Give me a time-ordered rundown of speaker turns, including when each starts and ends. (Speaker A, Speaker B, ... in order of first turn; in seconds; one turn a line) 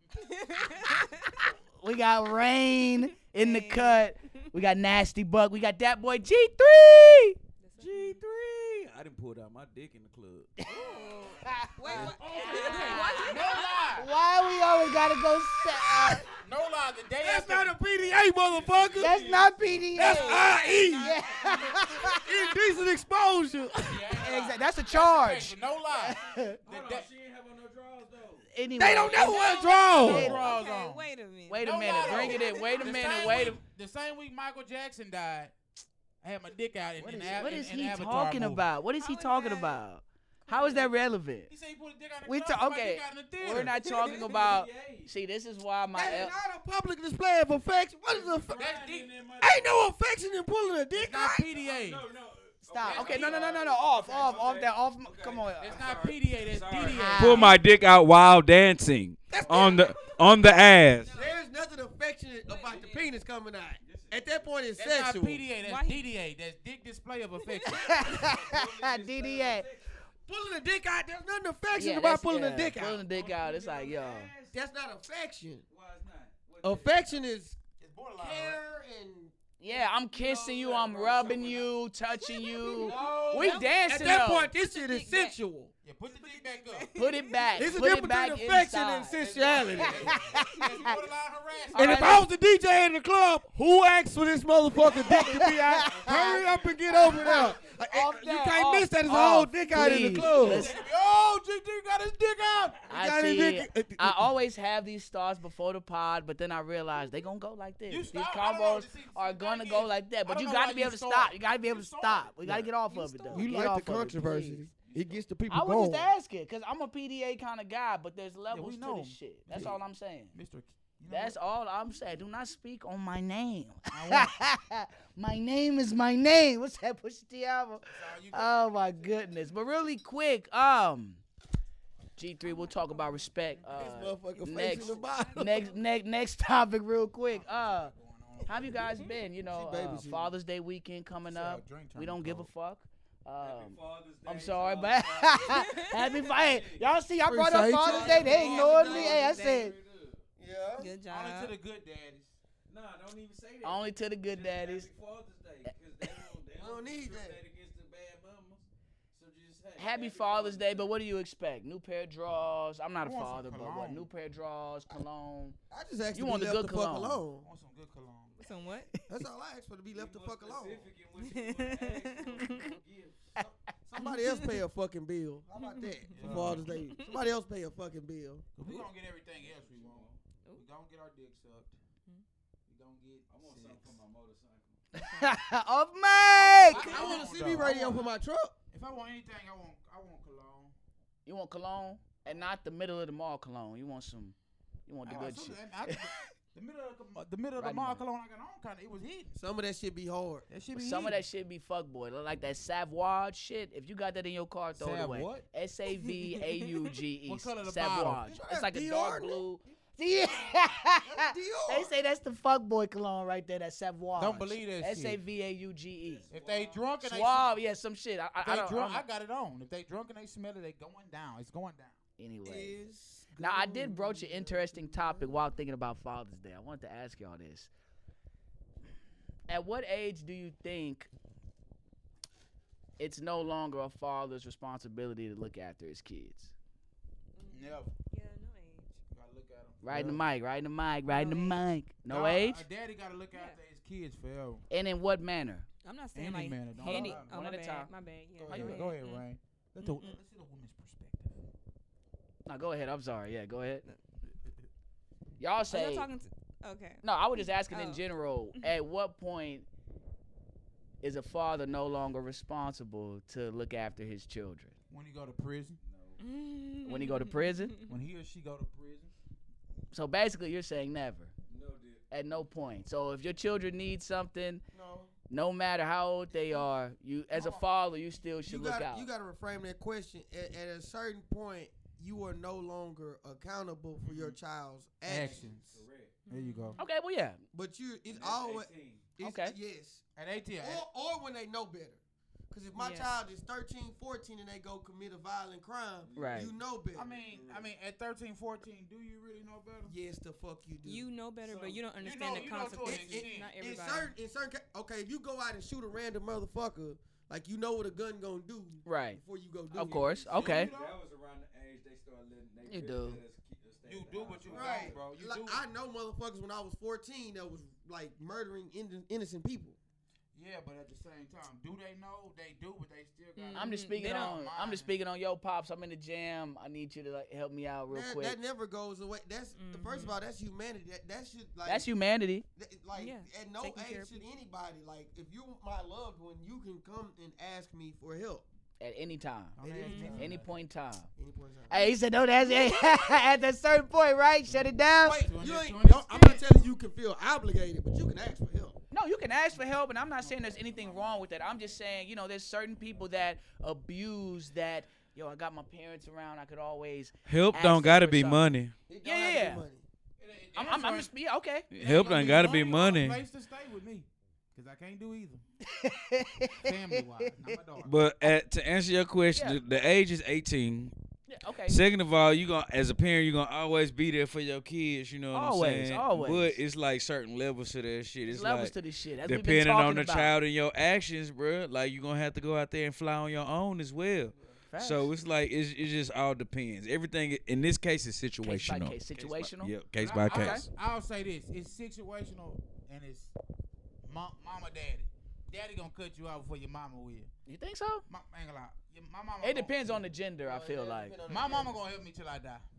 Speaker A: 0.1-1.5
Speaker B: 0.6-1.0
Speaker C: 1.4-7.3
Speaker A: 3.3-4.1
Speaker A: 7.6-8.2
Speaker D: 7.8-13.2
Speaker C: 10.6-16.3
Speaker A: 10.7-13.9
Speaker B: 10.7-14.1
Speaker B: 15.9-17.8
Speaker E: 17.2-19.1
Speaker D: 18.0-20.1
Speaker C: 18.9-22.2
Speaker E: 19.9-21.1
Speaker B: 20.2-21.1
Speaker D: 21.2-21.7
Speaker A: 21.4-21.8
Speaker E: 22.2-24.1
Speaker B: 23.9-27.1
Speaker C: 24.1-26.6
Speaker D: 26.6-28.5
Speaker C: 28.5-30.5
Speaker E: 28.8-30.4
Speaker B: 29.2-31.1
Speaker A: 29.4-33.5
Speaker C: 31.5-33.6
Speaker B: 31.6-35.5
Speaker B: 36.2-38.6
Speaker C: 37.0-41.5
Speaker A: 39.0-39.8
Speaker A: 40.5-40.9
Speaker B: 41.5-43.7
Speaker C: 42.2-46.3
Speaker D: 43.5-45.1
Speaker A: 43.8-44.4
Speaker E: 45.9-48.7
Speaker D: 48.1-49.7
Speaker B: 48.5-49.1
Speaker E: 49.4-51.5
Speaker B: 50.9-52.0
Speaker D: 51.5-61.3
Speaker C: 52.7-56.0
Speaker B: 52.8-53.5
Speaker B: 55.6-57.5
Speaker C: 56.9-57.6
Speaker E: 59.3-60.0
Speaker E: 61.1-65.4
Speaker A: 62.5-63.0
Speaker D: 62.5-63.1
Speaker D: 63.8-64.5
Speaker B: 64.7-68.0
Speaker A: 65.6-66.0
Speaker C: 67.6-69.7
Speaker D: 67.6-69.9
Speaker E: 70.3-73.0
Speaker C: 71.7-74.3
Speaker D: 72.9-74.5
Speaker E: 74.5-75.6
Speaker D: 75.7-77.0
Speaker E: 76.6-77.5
Speaker B: 77.8-78.6
Speaker E: 78.2-79.3
Speaker C: 79.6-84.5
Speaker E: 80.1-81.6
Speaker D: 80.2-81.7
Speaker B: 80.9-81.5
Speaker A: 82.2-85.3
Speaker D: 82.7-83.7
Speaker E: 83.8-85.7
Speaker B: 85.8-86.9
Speaker A: 86.1-87.7
Speaker C: 86.9-90.9
Speaker E: 87.5-90.6
Speaker B: 89.2-92.2
Speaker A: 90.4-90.8
Speaker C: 91.7-92.3
Speaker E: 91.7-100.7
Speaker D: 94.9-95.2
Speaker C: 95.0-96.4
Speaker D: 95.8-97.8
Speaker B: 95.9-97.8
Speaker C: 96.9-100.8
Speaker B: 99.8-102.8
Speaker D: 100.2-100.5
Speaker C: 102.9-114.6
Speaker E: 102.9-104.3
Speaker B: 107.9-112.7
Speaker A: 112.9-113.5
Speaker E: 113.3-116.1
Speaker B: 114.8-115.2
Speaker C: 115.5-120.3
Speaker B: 118.5-119.8
Speaker B: 120.3-121.3
Speaker C: 121.1-131.2
Speaker B: 123.9-124.3
Speaker B: 127.8-129.5
Speaker C: 132.2-137.9
Speaker A: 132.4-133.3
Speaker E: 133.7-135.7
Speaker A: 134.5-135.8
Speaker B: 137.3-139.1
Speaker C: 138.4-149.8
Speaker E: 139.4-140.3
Speaker B: 141.3-142.5
Speaker D: 143.4-146.9
Speaker A: 145.5-146.2
Speaker E: 147.2-149.3
Speaker D: 147.8-150.2
Speaker B: 147.8-148.9
Speaker E: 150.4-150.9
Speaker A: 150.8-151.5
Speaker B: 151.1-152.3
Speaker D: 152.7-160.9
Speaker C: 153.6-154.9
Speaker E: 156.5-157.4
Speaker C: 159.8-165.6
Speaker B: 163.0-164.1
Speaker E: 165.7-167.5
Speaker C: 166.1-167.2
Speaker B: 167.4-168.3
Speaker A: 168.4-168.9
Speaker E: 169.1-170.9
Speaker D: 169.9-173.3
Speaker A: 171.2-172.8
Speaker E: 173.4-178.4
Speaker A: 174.0-174.6
Speaker A: 175.7-177.1
Speaker B: 176.1-176.7
Speaker B: 178.6-181.7
Speaker D: 179.4-180.2
Speaker B: 182.7-184.0
Speaker D: 183.3-184.8
Speaker A: 184.9-185.3
Speaker C: 184.9-187.0
Speaker B: 186.3-188.1
Speaker E: 186.7-188.5
Speaker B: 188.7-190.7
Speaker C: 191.2-194.3
Speaker C: 194.9-196.1
Speaker B: 195.1-199.3
Speaker C: 197.6-198.0
Speaker E: 199.3-200.5
Speaker B: 200.5-201.2
Speaker C: 200.7-216.3
Speaker B: 204.8-205.4
Speaker A: 206.0-206.8
Speaker B: 207.2-208.2
Speaker E: 208.2-209.4
Speaker E: 211.0-211.9
Speaker B: 214.2-215.2
Speaker D: 216.0-216.9
Speaker B: 216.3-217.6
Speaker C: 217.0-219.0
Speaker B: 218.4-222.0
Speaker C: 222.2-222.8
Speaker E: 222.4-225.4
Speaker C: 223.4-227.7
Speaker C: 229.5-231.1
Speaker C: 233.0-236.5
Speaker A: 237.3-238.9
Speaker B: 237.5-237.9
Speaker B: 239.1-240.2
Speaker C: 239.8-242.6
Speaker A: 241.1-241.7
Speaker B: 242.0-244.6
Speaker A: 243.3-243.6
Speaker C: 244.7-245.7
Speaker A: 245.8-249.2
Speaker B: 246.1-247.3
Speaker C: 246.8-247.9
Speaker B: 248.4-251.4
Speaker C: 248.5-248.8
Speaker A: 249.8-250.2
Speaker C: 252.4-253.8
Speaker C: 255.4-256.1
Speaker A: 255.7-258.0
Speaker C: 257.0-259.7
Speaker C: 261.0-264.7
Speaker B: 264.9-265.8
Speaker D: 265.8-266.2
Speaker A: 266.2-267.9
Speaker C: 266.8-267.7
Speaker B: 267.9-269.1
Speaker C: 269.9-271.3
Speaker D: 271.5-272.0
Speaker C: 272.1-274.6
Speaker E: 274.7-275.1
Speaker C: 275.3-279.1
Speaker B: 277.3-277.6
Speaker E: 278.4-285.5
Speaker B: 284.0-284.4
Speaker B: 285.1-286.8
Speaker D: 285.1-286.2
Speaker A: 286.2-286.9
Speaker C: 286.8-287.4
Speaker E: 287.5-290.0
Speaker D: 288.1-289.0
Speaker C: 289.2-289.6
Speaker B: 290.1-290.8
Speaker E: 290.6-297.1
Speaker A: 292.7-293.1
Speaker D: 296.0-296.5
Speaker C: 296.1-296.5
Speaker B: 296.9-299.9
Speaker D: 297.1-297.7
Speaker E: 299.9-301.1
Speaker A: 300.8-304.1
Speaker D: 301.4-302.5
Speaker B: 302.0-303.5
Speaker E: 302.9-310.2
Speaker C: 308.8-309.2
Speaker C: 309.7-310.7
Speaker D: 309.7-315.0
Speaker B: 310.3-311.0
Speaker C: 312.6-313.2
Speaker B: 313.8-315.6
Speaker E: 314.5-319.8
Speaker B: 320.3-324.9
Speaker A: 323.4-324.3
Speaker C: 323.5-328.4
Speaker E: 327.9-331.9
Speaker A: 329.6-330.1
Speaker C: 331.6-332.4
Speaker E: 332.6-338.4
Speaker A: 332.9-334.2
Speaker C: 338.8-339.6
Speaker B: 339.6-340.5
Speaker E: 339.6-340.4
Speaker A: 339.8-340.2
Speaker C: 340.1-341.1
Speaker E: 341.2-341.8
Speaker C: 341.7-345.2
Speaker A: 342.5-342.8
Speaker B: 344.4-346.5
Speaker E: 345.0-348.8
Speaker C: 348.9-358.5
Speaker B: 350.2-351.2
Speaker D: 357.2-358.7
Speaker E: 358.9-359.8
Speaker C: 359.0-359.6
Speaker B: 360.2-361.1
Speaker C: 360.5-361.7
Speaker D: 361.7-363.2
Speaker B: 361.8-365.4
Speaker C: 365.7-367.3
Speaker B: 366.5-368.0
Speaker D: 367.8-370.9
Speaker C: 369.3-369.6
Speaker C: 371.3-371.8
Speaker D: 371.7-390.6
Speaker C: 375.3-376.6
Speaker C: 378.3-380.3
Speaker C: 384.7-385.1
Speaker C: 388.4-389.7
Speaker B: 390.0-393.3
Speaker C: 390.3-390.6
Speaker B: 394.0-397.3
Speaker C: 397.4-398.0
Speaker B: 398.1-400.0
Speaker C: 399.4-401.1
Speaker E: 400.4-401.8
Speaker B: 401.3-402.6